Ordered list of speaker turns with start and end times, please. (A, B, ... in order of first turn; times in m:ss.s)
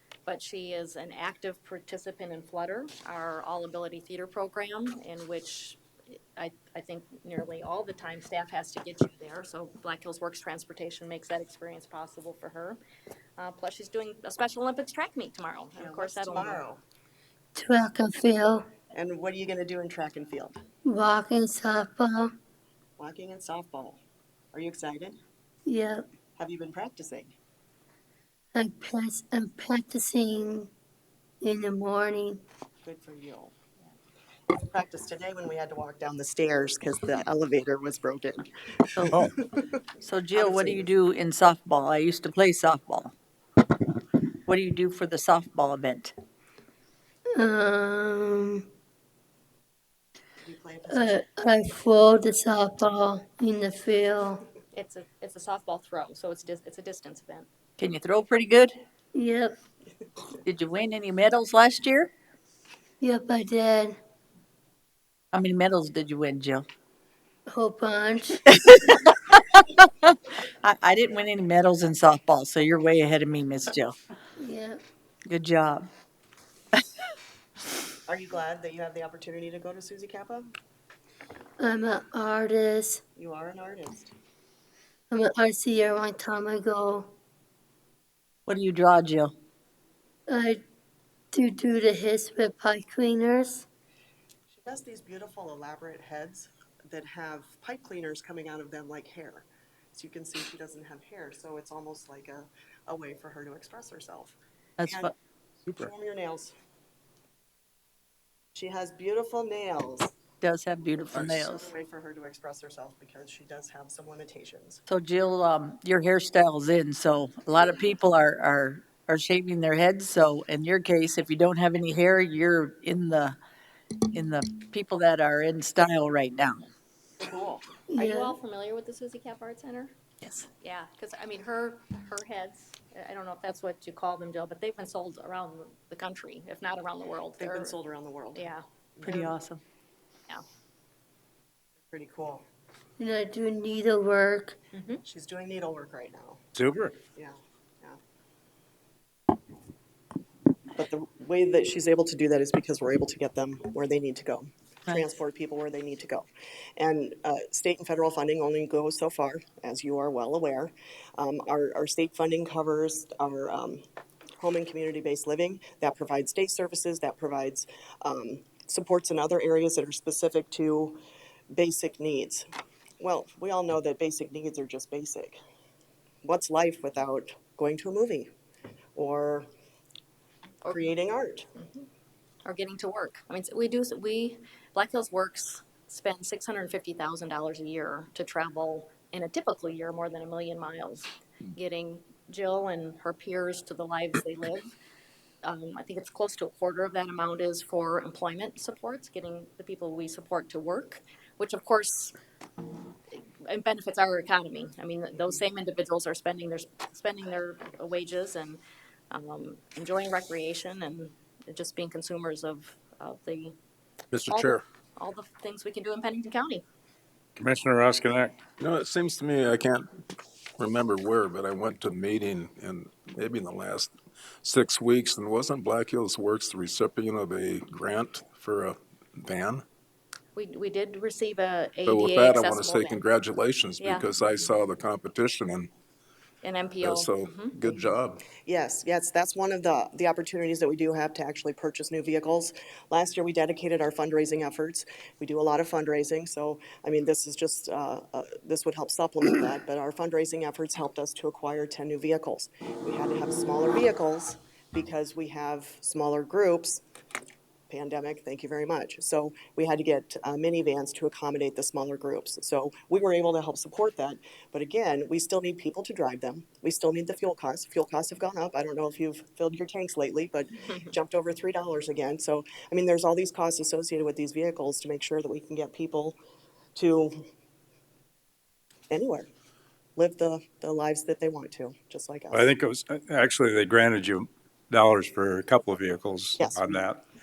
0:00.2-0:05.8 A
0:06.4-0:12.8 A
0:13.4-0:16.6 A
0:15.8-0:16.8 B
0:17.6-0:18.7 C
0:18.9-0:20.6 B
0:20.8-0:22.3 C
0:23.0-0:24.0 B
0:24.5-0:25.2 B
0:25.6-0:26.0 C
0:26.4-0:27.3 B
0:28.5-0:30.7 C
0:31.4-0:32.4 C
0:32.8-0:33.5 B
0:34.5-0:39.7 B
0:40.0-0:43.1 D
0:40.3-0:40.9 B
0:44.4-0:46.1 D
0:47.4-0:48.6 C
0:50.4-0:51.2 B
0:50.9-0:54.4 C
0:54.7-0:57.5 A
0:57.8-0:58.8 D
0:59.1-0:59.6 C
1:00.4-1:02.1 D
1:03.0-1:04.0 C
1:05.3-1:06.7 D
1:07.5-1:08.4 C
1:08.5-1:14.0 D
1:14.4-1:14.8 C
1:15.3-1:15.9 D
1:18.1-1:20.5 B
1:21.6-1:23.0 C
1:23.2-1:24.1 B
1:25.1-1:27.1 C
1:28.4-1:29.3 D
1:30.3-1:30.6 C
1:31.3-1:33.7 C
1:34.5-1:45.1 B
1:44.8-1:45.1 D
1:45.7-1:46.5 B
1:48.5-1:50.1 B
1:50.4-1:51.7 D
1:51.1-1:54.8 B
1:54.9-2:03.4 D
2:04.1-2:06.7 D
2:07.2-2:07.6 B
2:07.9-2:08.3 C
2:08.0-2:09.9 A
2:10.6-2:17.7 A
2:17.4-2:18.4 B
2:18.4-2:18.6 A
2:19.0-2:19.3 B
2:19.0-2:19.6 D
2:21.9-2:22.4 B
2:23.0-2:24.6 C
2:24.7-2:25.0 A
2:25.0-2:26.4 B
2:26.5-2:26.9 E
2:27.1-2:28.0 B
2:30.7-2:43.8 B
2:44.4-2:51.0 B
2:51.5-2:52.4 B
2:53.0-2:55.4 B
2:56.2-2:58.3 B
2:58.9-2:59.4 B
3:00.7-3:01.5 B
3:02.4-3:14.7 A
3:15.4-3:22.1 A
3:23.1-3:28.6 A
3:29.1-3:33.6 A
3:34.1-3:34.6 F
3:34.3-3:36.6 A
3:37.4-3:38.3 E
3:38.6-3:39.9 F
3:40.6-3:49.6 F
3:50.3-3:53.0 A
3:51.8-3:55.7 F
3:53.8-3:54.1 A
3:56.4-3:57.8 A
3:56.8-3:58.2 F
3:58.3-4:16.8 B
4:17.7-4:36.2 B
4:36.8-4:37.2 B
4:38.9-4:39.3 B
4:40.0-4:42.5 B
4:42.3-4:47.0 E
4:46.4-4:46.9 B